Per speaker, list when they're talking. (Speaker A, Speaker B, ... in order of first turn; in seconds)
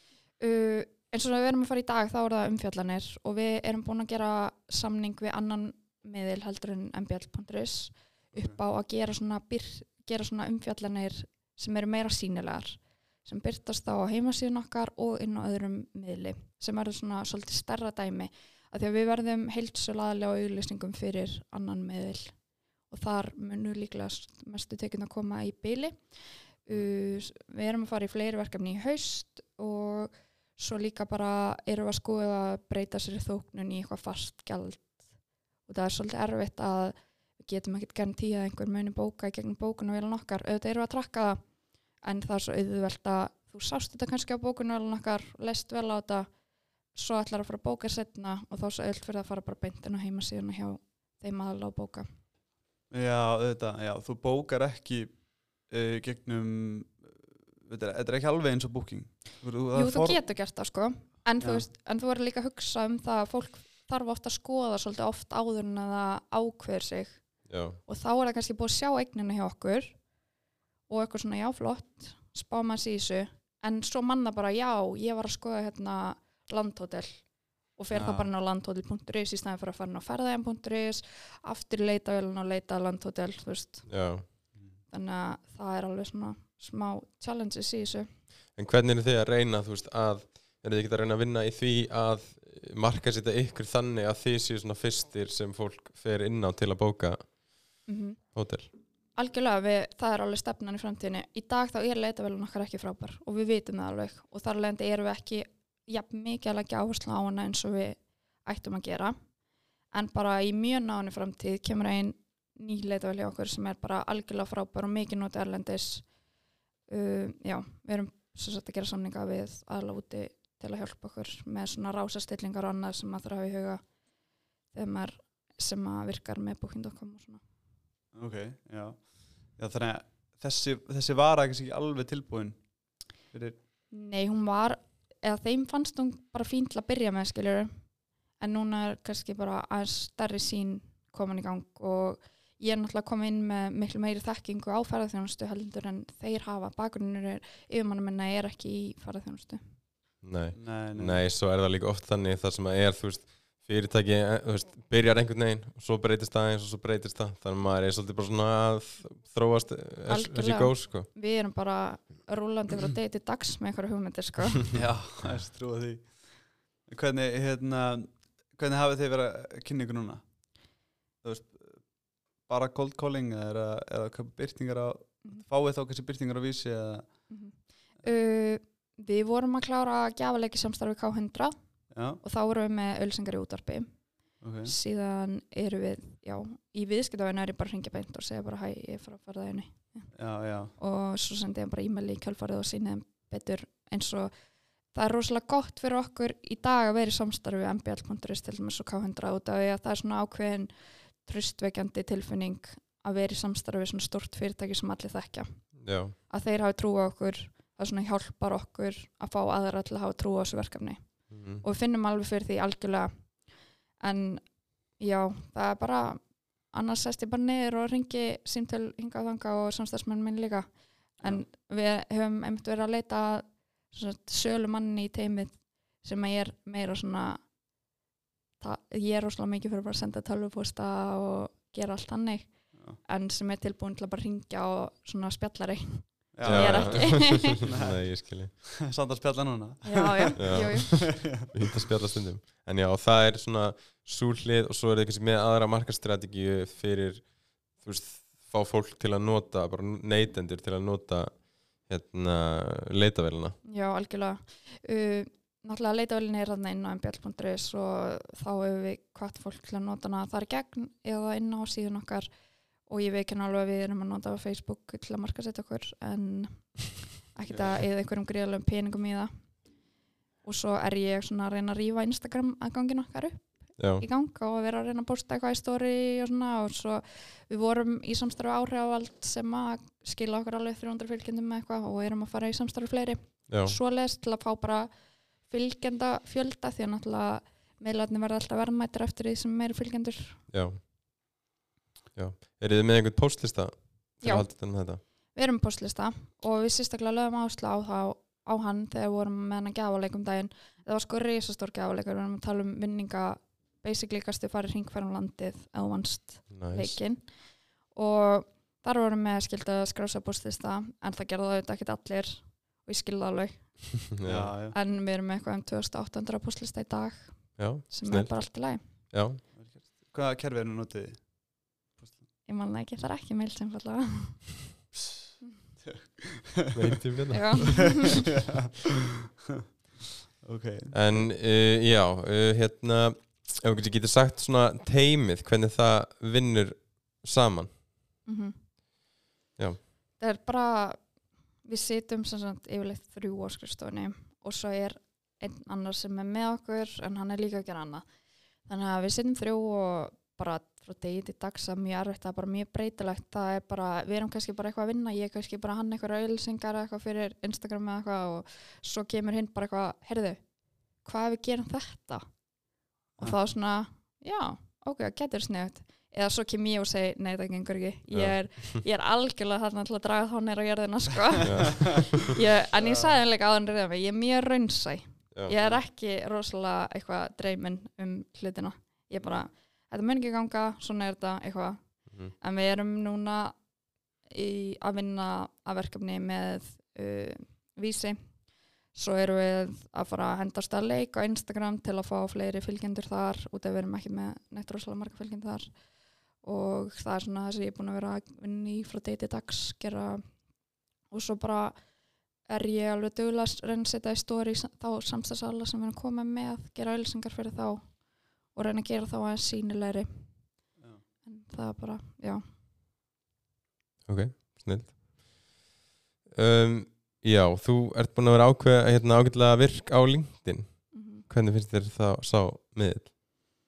Speaker A: 0.4-52.1, 59.7-70.1, 70.9-88.1, 97.9-127.4, 133.9-149.8, 160.1-164.7, 177.3-227.5, 228.6-237.6, 239.8-241.1, 253.6-290.4, 294.2-314.1, 314.7-318.9, 322.4-324.7, 327.3-328.1, 338.2-338.6, 340.2-412.4, 420.9-421.2
Speaker B: 8.3-8.6, 52.9-61.7, 77.9-78.3, 84.5-84.8, 128.1-133.6, 150.5-151.2, 164.7-177.5, 181.9-182.2, 184.4-184.7, 190.1-190.7, 221.2-221.5, 232.7-233.0, 236.3-241.5, 314.2-314.8, 319.5-322.2, 325.8-326.8, 328.3-328.8, 330.4-331.2, 372.8-373.1, 375.6-375.8, 410.8-411.0
Speaker C: 67.5-67.8, 83.9-84.2, 88.6-97.8, 98.3-98.7, 150.2-161.1, 205.8-206.1, 211.3-211.6, 236.4-238.6, 240.4-253.6, 273.8-274.1, 283.5-283.8, 290.5-290.8, 292.1-295.0, 306.5-307.0, 314.1-314.5, 317.6-319.4, 326.8-328.1, 330.9-337.7, 339.6-339.8, 368.1-368.6, 371.4-372.1, 375.3-375.6, 414.1-415.6, 416.3-423.1